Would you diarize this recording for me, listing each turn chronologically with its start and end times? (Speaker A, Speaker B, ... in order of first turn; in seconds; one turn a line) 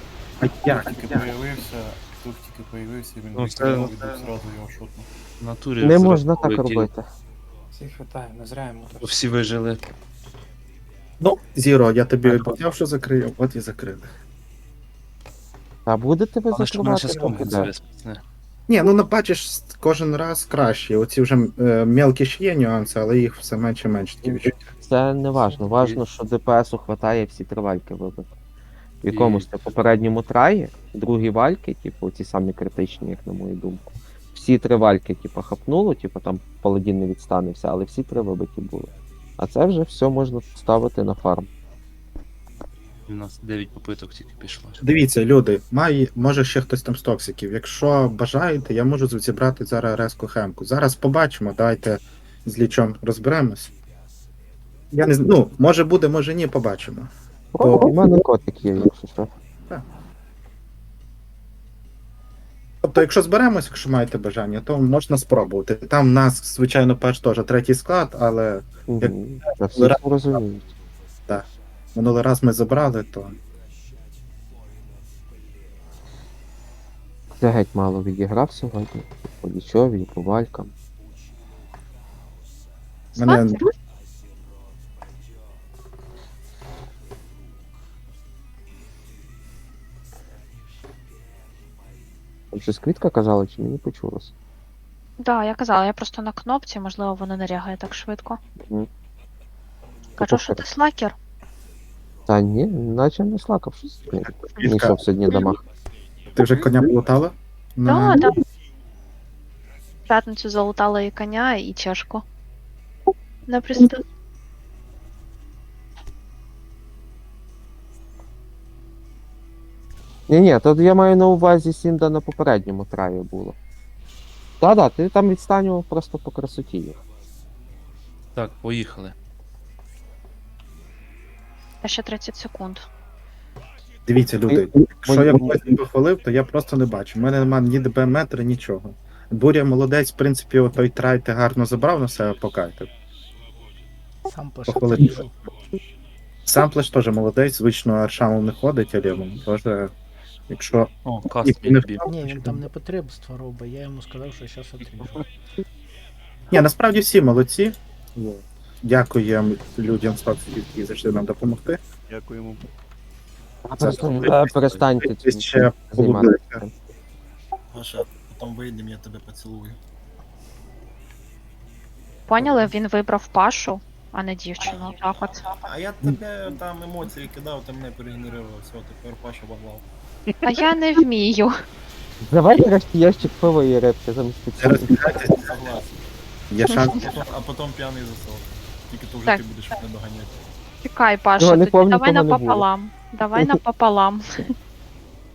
Speaker A: 0.4-1.2
Speaker B: 0.7-5.1
Speaker C: 3.4-4.2
Speaker C: 5.4-6.9
Speaker D: 5.8-7.1
Speaker E: 7.7-9.2
Speaker C: 9.0-9.8
Speaker A: 11.2-14.1
Speaker D: 15.9-17.7
Speaker C: 16.5-18.2
Speaker A: 18.7-24.6
Speaker B: 24.2-24.6
Speaker D: 24.8-28.3
Speaker C: 25.4-26.0
Speaker D: 29.0-41.5
Speaker C: 29.1-29.5
Speaker C: 43.1-44.8
Speaker A: 44.8-53.7
Speaker A: 54.9-58.0
Speaker D: 57.5-59.3
Speaker A: 62.8-70.0
Speaker D: 68.9-70.7
Speaker A: 71.3-73.4
Speaker D: 77.4-80.7
Speaker A: 83.2-83.6
Speaker F: 83.2-83.6
Speaker D: 92.5-94.3
Speaker F: 95.2-98.4
Speaker F: 100.2-101.2
Speaker D: 100.2-100.6
Speaker D: 102.3-105.6
Speaker A: 104.6-105.0
Speaker A: 106.3-108.3
Speaker F: 107.9-108.3
Speaker F: 110.1-112.2
Speaker F: 113.5-114.0
Speaker D: 120.3-123.5
Speaker D: 124.6-127.0
Speaker C: 128.3-129.2
Speaker F: 131.8-132.9
Speaker A: 134.1-142.9
Speaker D: 134.5-135.7
Speaker G: 144.3-145.3
Speaker A: 144.7-145.2
Speaker A: 146.5-149.9
Speaker A: 150.5-150.9
Speaker C: 151.1-152.1
Speaker A: 151.4-152.6
Speaker G: 152.1-155.2
Speaker A: 156.5-161.8
Speaker E: 162.1-162.6
Speaker A: 163.7-166.6
Speaker D: 163.7-166.7
Speaker B: 167.7-169.8
Speaker F: 172.3-175.5
Speaker B: 175.6-179.8
Speaker F: 180.4-181.5
Speaker D: 182.3-185.1
Speaker A: 184.6-185.5
Speaker B: 185.3-186.1
Speaker A: 186.5-187.1
Speaker B: 186.9-190.4
Speaker F: 190.8-194.2
Speaker D: 191.4-192.7